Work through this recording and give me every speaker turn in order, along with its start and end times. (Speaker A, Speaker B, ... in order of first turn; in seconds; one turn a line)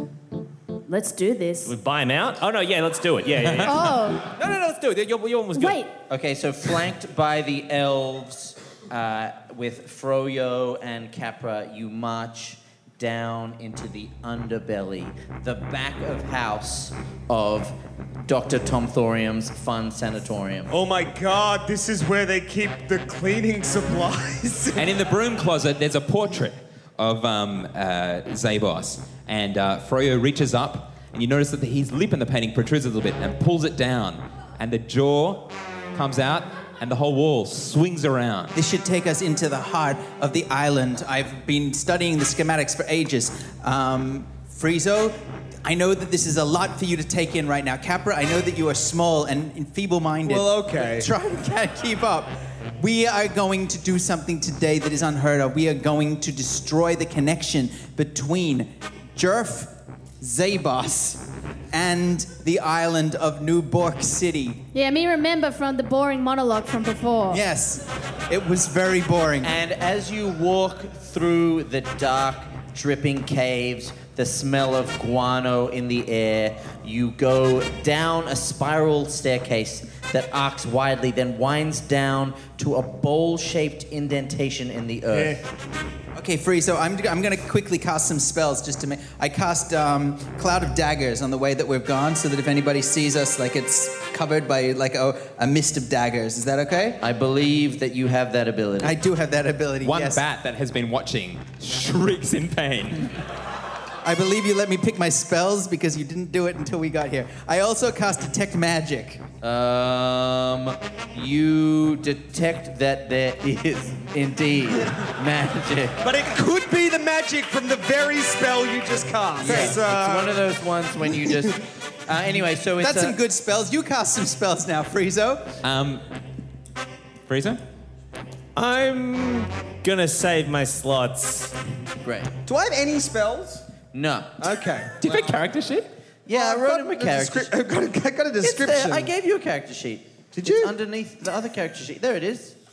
Speaker A: 0.9-1.8
Speaker B: 1.6-5.8
Speaker A: 3.6-4.3
Speaker A: 5.5-5.9
Speaker C: 6.1-20.7
Speaker D: 20.7-24.9
Speaker E: 24.7-38.5
Speaker F: 38.5-64.6
Speaker D: 50.2-51.1
Speaker A: 64.7-67.4
Speaker F: 67.3-69.5
Speaker C: 69.4-85.4
Speaker D: 85.1-85.4
Speaker F: 86.1-97.0
Speaker C: 97.0-99.0
Speaker F: 98.8-100.2
Speaker E: 99.8-103.2
Speaker F: 104.0-109.2
Speaker C: 109.4-116.0
Speaker D: 116.0-120.5
Speaker C: 119.4-123.2
Speaker D: 121.0-121.5
Speaker F: 122.8-125.5
Speaker E: 125.6-126.0
Speaker E: 127.3-127.6
Speaker B: 128.5-131.5
Speaker C: 132.0-132.3
Speaker D: 132.4-133.6
Speaker C: 133.9-134.3
Speaker D: 134.4-135.3
Speaker E: 135.0-135.9
Speaker C: 136.3-137.5
Speaker D: 136.3-139.1
Speaker C: 138.4-142.5
Speaker D: 140.3-140.7